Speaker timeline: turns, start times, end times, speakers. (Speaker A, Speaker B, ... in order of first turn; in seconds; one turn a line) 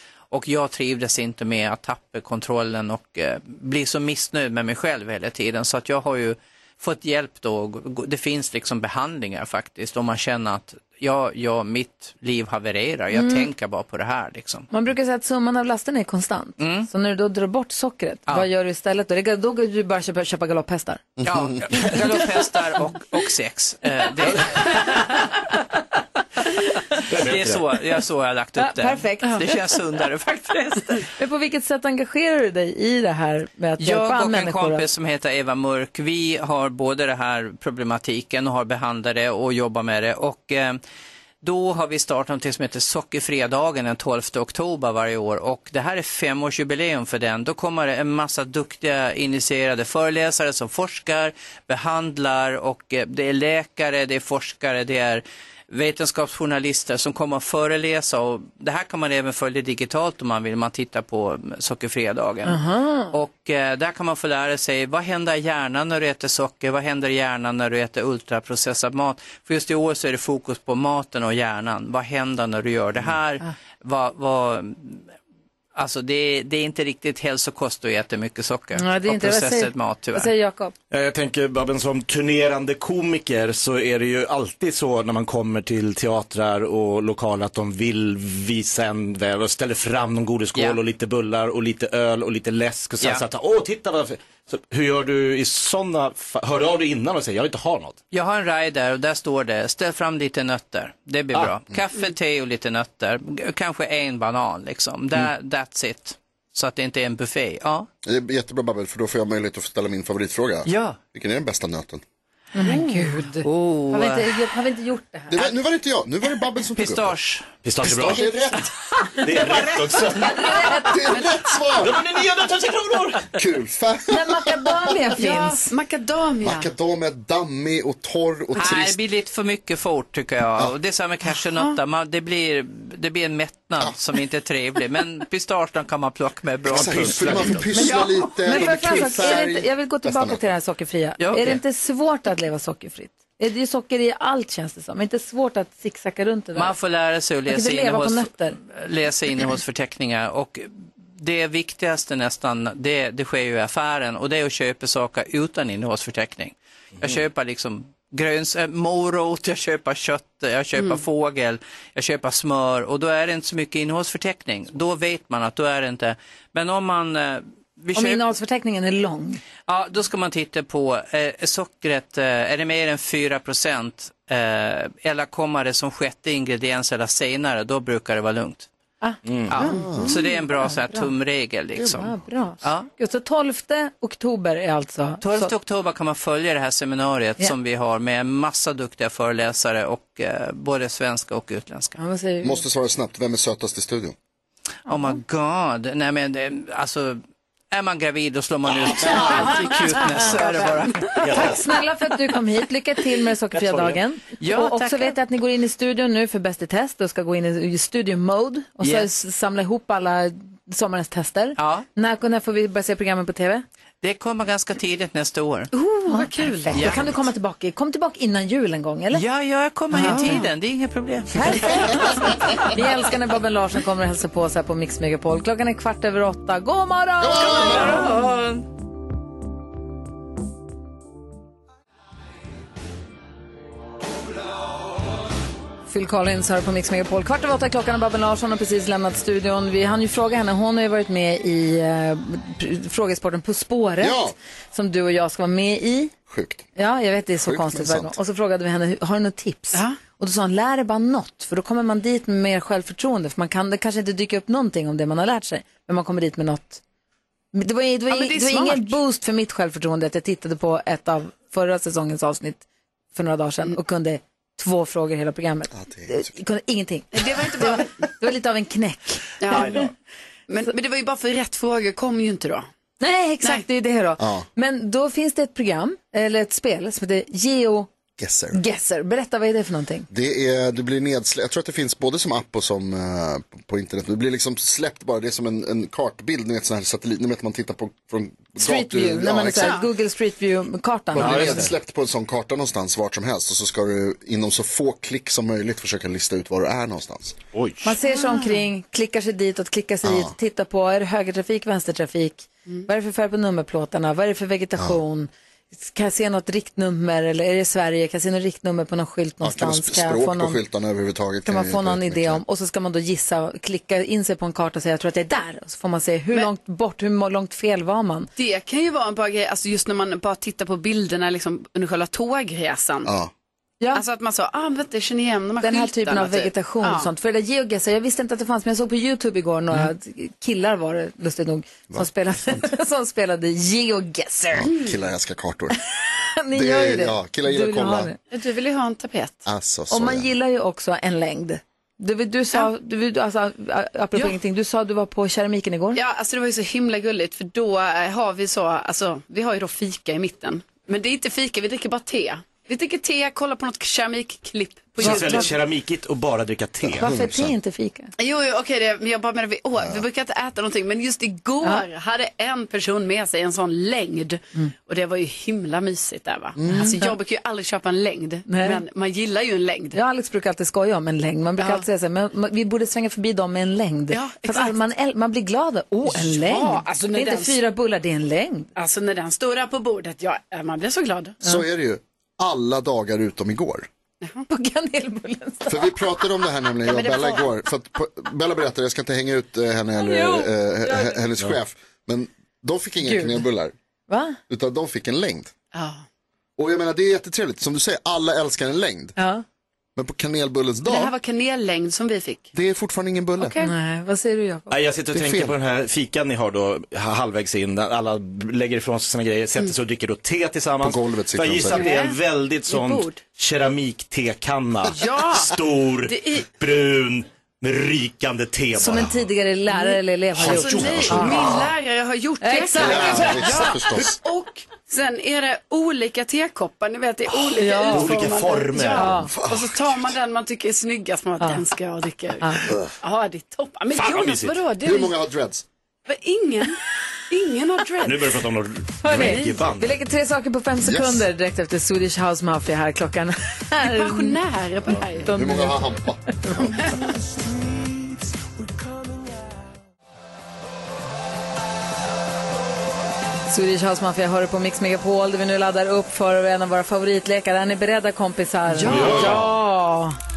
Speaker A: 0.3-14.7
Speaker B: 13.1-13.5
Speaker B: 14.7-21.1
Speaker A: 16.6-16.9
Speaker A: 21.2-25.6
Speaker A: 26.4-31.1
Speaker C: 27.1-27.6
Speaker B: 28.6-29.5
Speaker B: 31.1-34.9
Speaker A: 33.8-40.8
Speaker A: 41.4-62.6
Speaker B: 62.5-63.1
Speaker A: 63.1-75.0
Speaker A: 75.8-80.3
Speaker B: 78.7-80.7
Speaker C: 80.9-98.0
Speaker A: 90.5-90.8
Speaker A: 98.1-107.9
Speaker D: 108.0-112.0
Speaker A: 110.7-111.0
Speaker B: 112.5-115.4
Speaker A: 112.7-114.3
Speaker D: 115.3-117.1
Speaker A: 116.7-117.5
Speaker C: 117.6-118.3
Speaker D: 117.8-118.7
Speaker C: 119.2-120.5
Speaker B: 120.2-121.0
Speaker D: 120.8-122.0
Speaker C: 121.8-123.4
Speaker D: 123.3-124.9
Speaker B: 124.1-125.7
Speaker E: 125.2-126.7
Speaker D: 126.4-129.0
Speaker A: 128.6-139.3
Speaker C: 136.7-137.7
Speaker D: 136.7-140.5
Speaker B: 137.8-146.7
Speaker A: 141.2-141.6
Speaker A: 146.6-168.2
Speaker B: 147.5-148.6
Speaker B: 167.9-169.4
Speaker A: 169.7-178.7
Speaker B: 179.0-181.1
Speaker C: 179.2-179.6
Speaker A: 179.5-182.9
Speaker D: 179.7-180.2
Speaker B: 181.9-185.5
Speaker A: 185.2-192.0
Speaker B: 192.0-192.6
Speaker D: 192.4-194.1
Speaker A: 194.9-201.3
Speaker B: 194.9-195.1
Speaker C: 199.0-199.4
Speaker E: 199.3-200.8
Speaker C: 201.1-201.6
Speaker B: 201.3-213.6
Speaker C: 203.5-204.0
Speaker A: 204.4-204.8
Speaker A: 208.8-209.1
Speaker A: 211.6-211.9
Speaker A: 214.0-215.7
Speaker E: 215.7-217.0
Speaker B: 216.1-219.2
Speaker A: 216.7-217.2
Speaker A: 219.1-222.7
Speaker B: 219.9-220.4
Speaker E: 220.1-220.5
Speaker B: 221.3-228.1
Speaker D: 227.2-228.2
Speaker A: 227.4-228.6
Speaker B: 235.9-246.1
Speaker D: 244.0-244.3
Speaker D: 246.3-246.7
Speaker B: 246.8-256.8
Speaker D: 247.4-248.2
Speaker E: 249.7-250.0
Speaker B: 257.5-262.6
Speaker E: 258.1-259.0
Speaker B: 263.1-269.7
Speaker D: 265.7-266.3
Speaker E: 267.1-267.9
Speaker E: 269.4-269.9
Speaker C: 269.5-269.8
Speaker E: 270.5-272.7
Speaker B: 273.0-277.9
Speaker D: 274.2-274.4
Speaker D: 278.2-278.6
Speaker B: 278.5-280.1
Speaker D: 280.1-289.8
Speaker B: 288.6-291.6
Speaker E: 289.6-289.9
Speaker D: 291.1-297.4
Speaker C: 291.2-291.7
Speaker C: 297.5-297.8
Speaker B: 297.8-310.6
Speaker E: 298.1-298.6
Speaker D: 300.0-300.3
Speaker D: 309.4-312.4
Speaker B: 311.4-318.3
Speaker E: 318.4-323.1
Speaker D: 323.1-323.3
Speaker E: 323.9-327.1
Speaker B: 325.6-334.7
Speaker D: 331.9-332.6
Speaker D: 334.5-335.8
Speaker E: 334.7-335.0
Speaker B: 336.2-338.2
Speaker D: 336.5-338.1
Speaker E: 338.3-339.4
Speaker D: 339.4-340.3
Speaker B: 339.9-346.0
Speaker E: 345.9-355.5
Speaker C: 355.0-357.1
Speaker B: 355.0-355.5
Speaker D: 356.8-357.5
Speaker B: 357.0-358.1
Speaker E: 358.2-370.0
Speaker D: 366.6-366.9
Speaker B: 366.7-367.1
Speaker B: 368.5-368.8
Speaker B: 369.9-378.7
Speaker E: 371.6-371.8
Speaker E: 374.1-374.8
Speaker E: 376.1-377.6
Speaker E: 378.8-381.4
Speaker D: 381.4-383.9
Speaker B: 384.5-386.0
Speaker D: 385.7-393.7
Speaker E: 386.9-387.5
Speaker B: 390.0-391.2
Speaker B: 393.0-393.4
Speaker B: 394.1-394.4
Speaker D: 394.5-395.5
Speaker E: 395.7-396.0
Speaker D: 396.6-399.2
Speaker B: 399.2-399.4
Speaker D: 399.9-401.1
Speaker E: 400.9-402.5
Speaker D: 402.5-403.6
Speaker E: 403.4-403.7
Speaker B: 403.6-404.7
Speaker C: 404.7-419.2
Speaker D: 405.1-405.6
Speaker D: 410.8-411.9
Speaker E: 411.7-413.2
Speaker E: 414.9-416.4
Speaker B: 418.7-421.6
Speaker C: 420.4-421.7
Speaker E: 420.4-435.2
Speaker B: 422.4-423.7
Speaker D: 422.8-424.2
Speaker B: 427.6-428.1
Speaker C: 427.9-429.2
Speaker B: 428.9-429.3
Speaker D: 429.3-430.1
Speaker B: 432.4-432.7
Speaker C: 433.9-434.6
Speaker D: 434.8-435.6
Speaker E: 436.1-436.8
Speaker E: 437.3-438.4
Speaker C: 438.0-439.9
Speaker B: 439.0-444.4
Speaker E: 439.1-439.6
Speaker D: 440.8-441.3
Speaker E: 443.8-445.5
Speaker B: 445.3-445.9
Speaker D: 445.3-446.9
Speaker B: 446.4-446.8
Speaker E: 446.8-447.1
Speaker B: 453.5-460.2
Speaker C: 458.9-459.5
Speaker D: 458.9-459.4